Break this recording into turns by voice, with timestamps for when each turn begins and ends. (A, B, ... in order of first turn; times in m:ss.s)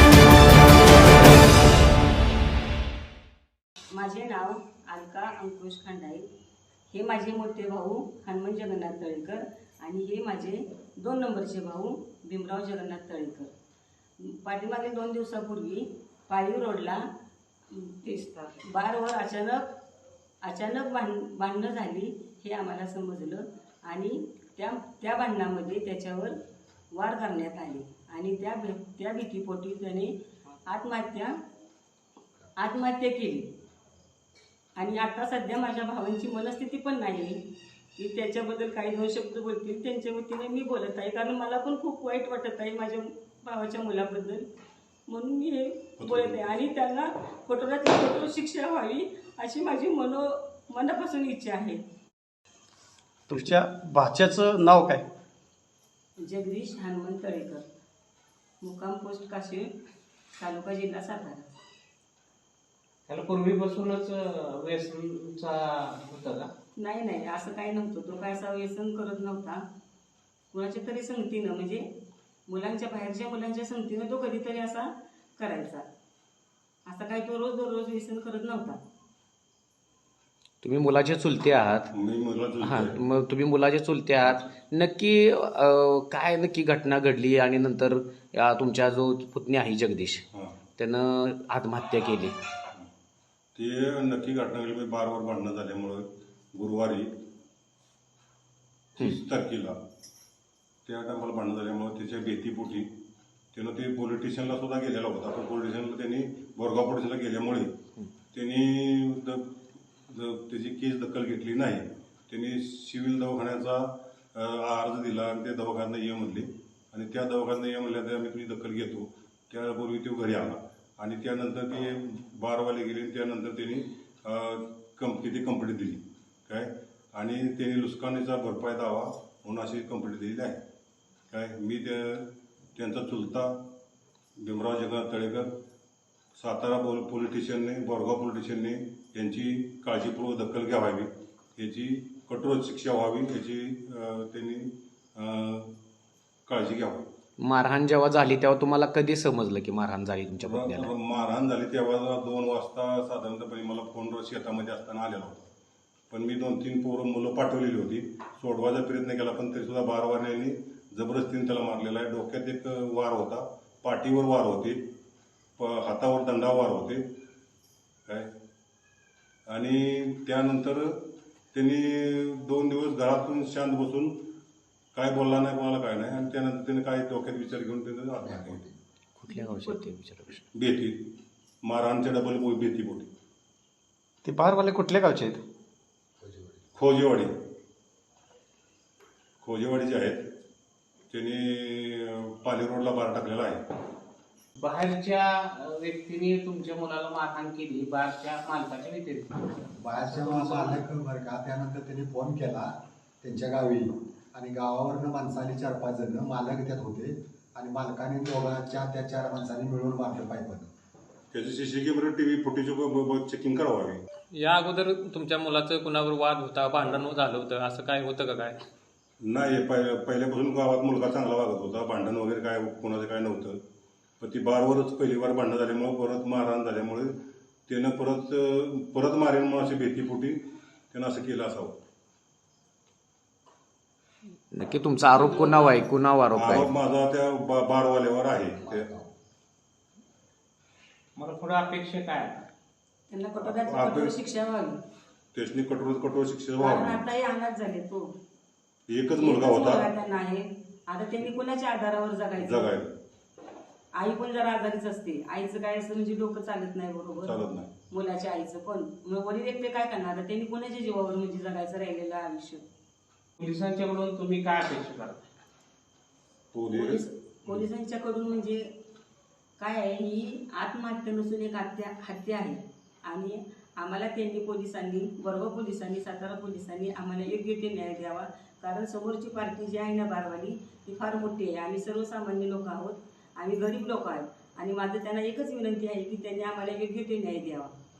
0:03.9-0:06.3 A
0:06.9-0:13.5 A
0:14.2-0:17.0 A
0:17.7-0:19.8 A
0:20.4-0:26.4 A
0:26.9-0:31.3 A
0:32.6-0:33.5 A
0:34.8-0:37.4 A
0:38.0-0:44.5 A
0:45.1-0:51.8 A
0:46.0-0:46.4 B
0:53.3-0:55.0 C
0:56.2-0:57.7 A
0:58.6-0:59.8 A
1:00.4-1:01.5 A
1:03.1-1:06.5 D
1:06.8-1:09.6 A
1:10.5-1:11.9 A
1:12.5-1:15.8 A
1:16.8-1:18.8 A
1:20.6-1:21.9 E
1:21.9-1:23.0 B
1:22.6-1:30.2 E
1:30.8-1:32.3 E
1:33.5-1:37.1 B
1:39.0-1:39.8 B
1:40.8-1:42.9 B
1:43.5-1:47.7 B
1:48.3-2:10.6 B
2:11.3-2:13.6 B
2:14.4-2:15.5 B
2:16.4-2:25.8 B
2:26.5-2:27.1 B
2:27.4-2:30.9 E
2:30.4-2:35.5 B
2:36.1-2:44.8 B
2:45.6-2:47.0 B
2:49.5-2:51.0 B
2:51.5-2:54.2 B
2:54.9-2:58.6 B
2:58.2-2:58.7 F
2:59.2-3:00.4 E
2:59.3-2:59.8 A
3:00.5-3:01.0 B
3:01.6-3:03.1 B
3:04.2-3:05.4 C
3:06.2-3:06.6 F
3:06.7-3:07.3 B
3:09.4-3:10.2 B
3:11.1-3:13.6 B
3:14.6-3:19.5 D
3:19.8-3:30.7 F
3:20.0-3:20.8 D
3:31.3-3:34.0 B
3:34.3-3:38.6 G
3:39.2-3:43.6 B
3:44.2-3:47.1 B
3:47.7-3:50.4 B
3:50.9-3:51.8 B
3:54.5-3:56.7 E
3:55.1-3:55.8 A
3:56.3-3:58.9 B
3:58.6-3:59.1 F
4:01.2-4:02.4 D
4:03.1-4:04.8 A
4:03.4-4:04.1 B
4:05.3-4:07.1 B
4:06.6-4:08.1 A
4:08.9-4:09.9 B
4:09.1-4:12.7 A
4:12.4-4:13.0 B
4:14.0-4:22.6 A
4:17.2-4:17.7 B
4:23.4-4:25.2 D
4:26.5-4:27.6 B
4:26.7-4:28.7 A
4:29.6-4:47.7 A